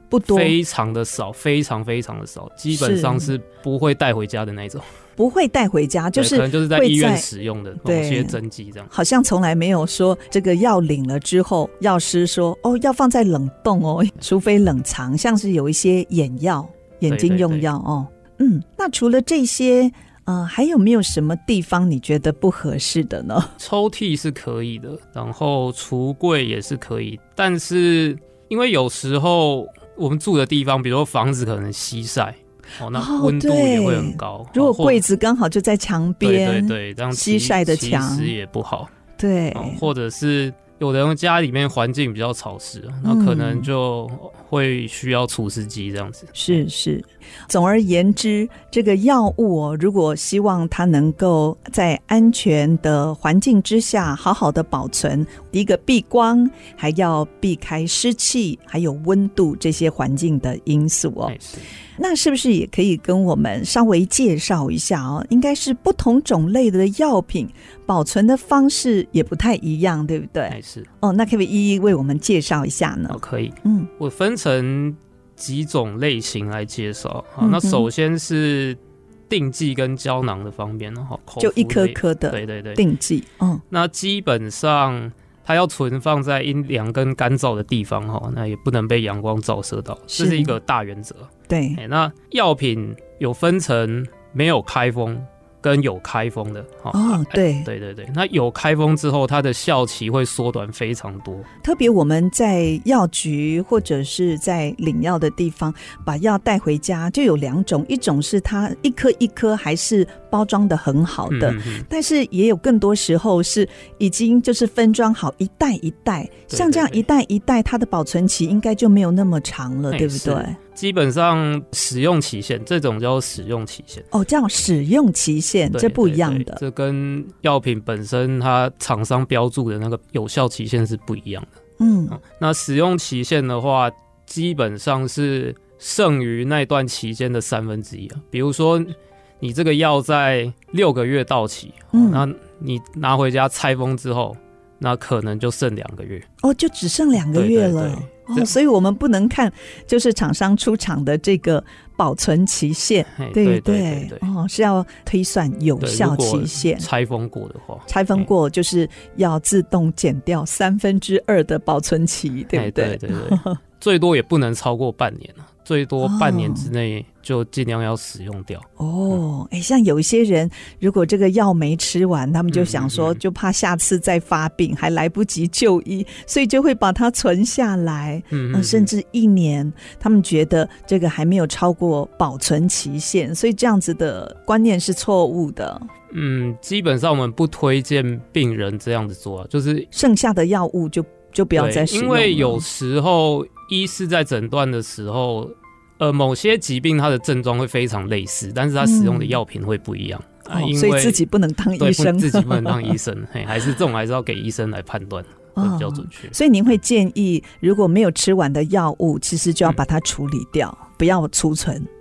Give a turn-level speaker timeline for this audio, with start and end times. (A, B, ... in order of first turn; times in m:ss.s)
0:00.1-0:00.6 A
0:00.3-0:04.9 B
0:02.7-0:03.3 A
0:05.2-0:07.3 A
0:06.2-0:08.9 B
0:07.8-0:08.4 A
0:08.9-0:23.5 A
0:17.1-0:17.7 B
0:23.6-0:35.0 B
0:32.9-0:38.3 A
0:36.2-0:38.9 B
0:39.2-0:39.8 A
0:39.5-0:46.6 B
0:43.0-0:43.7 A
0:46.4-1:01.4 A
1:01.3-1:01.7 B
1:02.0-1:13.9 A
1:10.5-1:10.9 B
1:13.1-1:22.8 B
1:17.4-1:17.9 A
1:21.4-1:23.6 A
1:23.7-1:41.5 B
1:30.1-1:30.6 A
1:31.5-1:31.8 A
1:36.9-1:37.7 A
1:41.6-2:00.6 A
1:51.3-1:51.9 B
1:56.5-1:57.0 B
1:59.9-2:04.1 B
2:04.1-2:06.6 A
2:05.7-2:11.5 B
2:11.8-2:12.2 A
2:12.1-2:26.3 B
2:21.9-2:22.2 A
2:26.4-2:36.9 A
2:27.3-2:28.5 B
2:33.1-2:34.3 B
2:35.8-2:38.3 B
2:37.9-2:43.6 A
2:42.5-2:49.2 B
2:46.0-2:46.7 A
2:48.8-3:05.9 A
2:52.5-2:53.2 B
2:58.3-2:58.9 B
3:06.1-3:09.9 B
3:09.9-3:12.6 A
3:11.6-3:21.2 B
3:18.8-3:19.4 A
3:20.5-3:23.0 A
3:21.8-3:26.4 B
3:25.6-3:31.9 A